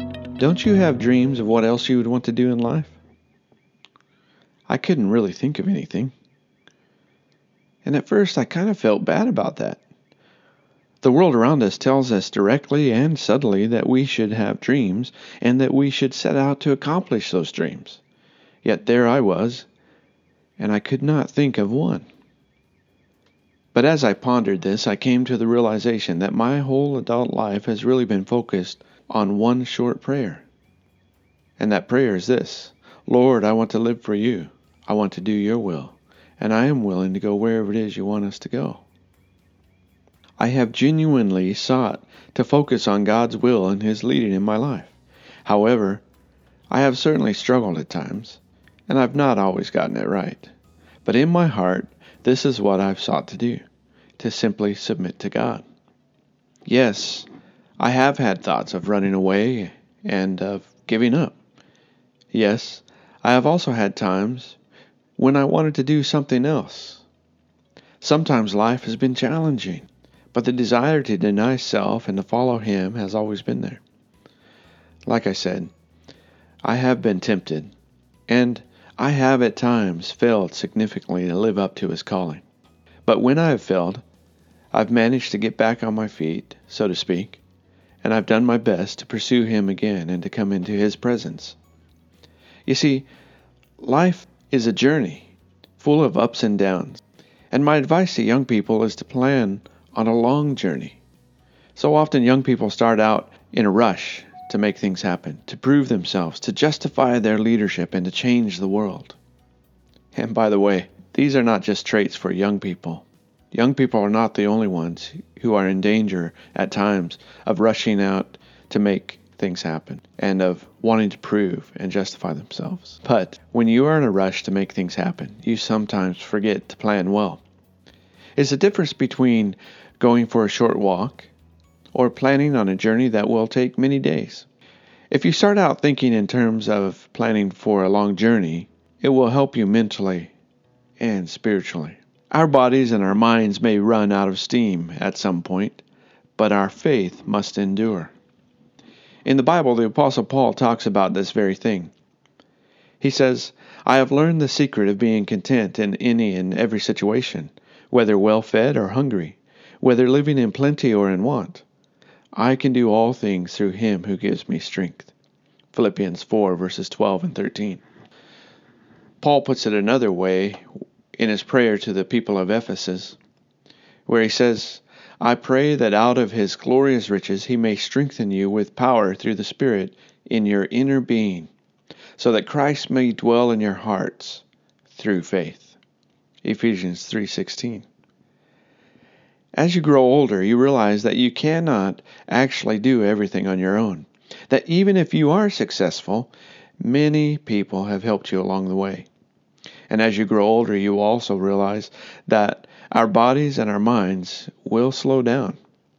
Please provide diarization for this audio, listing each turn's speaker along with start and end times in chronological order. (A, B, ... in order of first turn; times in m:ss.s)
0:00.4-0:03.0 A
0:04.7-0:06.1 A
0:07.8-0:09.8 A
0:11.0-0:18.0 A
0:18.6-0:19.7 A
0:20.6-0:22.1 A
0:23.7-0:30.4 A
0:31.6-0:38.8 A
0:40.4-0:44.9 A
0:45.4-0:46.0 A
0:46.7-0:50.5 A
0:51.0-0:53.6 A
0:54.2-0:55.6 A
0:56.6-0:57.3 A
0:57.8-1:01.4 A
1:02.3-1:04.6 A
1:05.2-1:07.0 A
1:08.0-1:13.8 A
1:15.0-1:15.7 A
1:16.6-1:17.7 A
1:18.3-1:22.4 A
1:23.0-1:24.0 A
1:24.7-1:27.4 A
1:28.0-1:31.6 A
1:32.6-1:33.1 A
1:33.8-1:41.0 A
1:41.7-1:49.2 A
1:50.1-2:07.4 A
2:08.4-2:11.3 A
2:11.9-2:14.4 A
2:15.1-2:20.3 A
2:21.0-2:25.8 A
2:26.4-2:28.1 A
2:29.2-2:31.9 A
2:33.0-2:41.6 A
2:42.3-2:45.1 A
2:45.7-2:47.8 A
2:49.2-2:53.2 A
2:54.0-3:01.5 A
3:02.2-3:05.8 A
3:06.4-3:07.9 A
3:09.5-3:19.1 A
3:19.9-3:25.6 A